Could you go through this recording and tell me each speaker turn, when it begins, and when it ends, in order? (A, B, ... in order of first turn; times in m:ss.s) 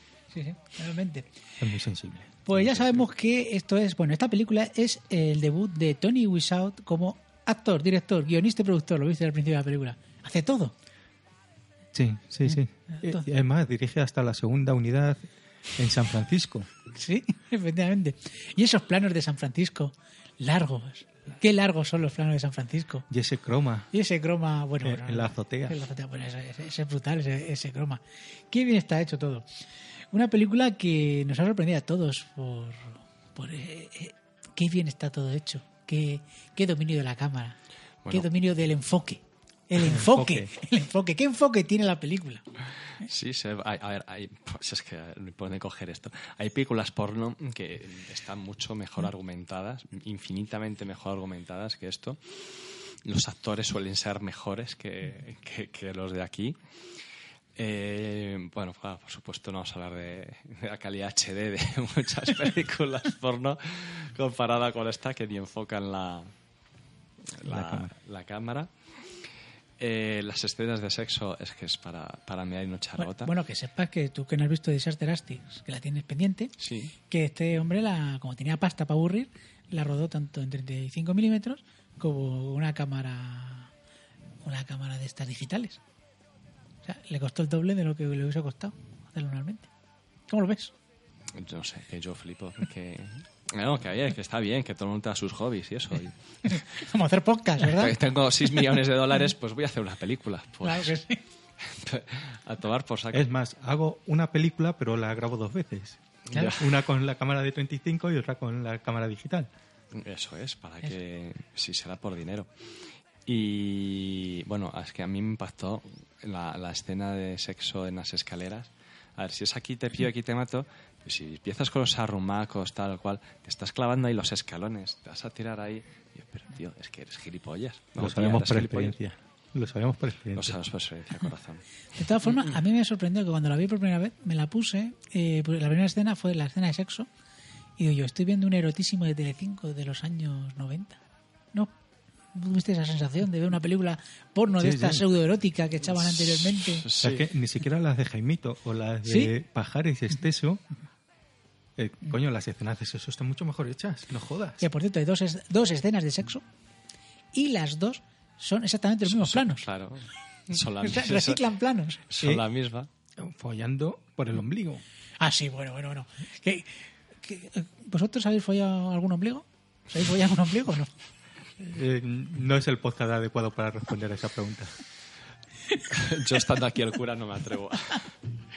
0:00.3-0:01.3 A
0:01.6-0:02.9 B
0:02.5-0:10.7 A
0:11.9-0:15.2 B
0:12.5-0:13.2 A
0:15.8-0:16.7 B
0:16.9-0:23.1 A
0:23.1-0:23.9 B
0:23.9-0:29.5 A
0:24.8-0:25.8 B
0:30.1-0:37.6 A
0:38.1-0:42.4 A
0:39.8-0:40.5 B
0:43.0-0:56.6 C
0:57.6-1:06.3 C
1:07.3-1:08.7 C
1:07.4-1:07.9 B
1:09.8-1:13.3 C
1:13.0-1:16.5 A
1:16.6-1:16.9 C
1:17.1-1:23.7 A
1:24.4-1:25.8 A
1:26.8-1:29.7 A
1:30.3-1:30.7 A
1:31.3-1:36.7 C
1:36.5-1:38.0 A
1:37.6-1:40.9 C
1:40.6-1:41.2 A
1:41.6-1:43.3 C
1:43.1-1:46.0 B
1:46.3-1:46.7 C
1:46.5-1:49.5 B
1:49.9-1:52.5 C
1:53.3-2:09.0 C
2:08.0-2:10.6 B
2:10.4-2:11.6 C
2:12.0-2:17.1 A
2:17.8-2:21.0 A
2:22.3-2:26.9 A
2:24.6-2:25.0 B
2:25.9-2:27.2 C
2:27.0-2:30.6 B
2:29.1-2:29.3 A
2:31.8-2:34.6 B
2:34.6-2:36.4 A
2:37.3-2:39.6 A
2:39.1-2:41.4 C
2:40.8-2:42.0 A
2:42.1-2:42.9 C
2:43.2-2:44.8 B
2:45.2-2:50.9 A
2:51.6-2:54.7 B
2:55.9-2:58.1 C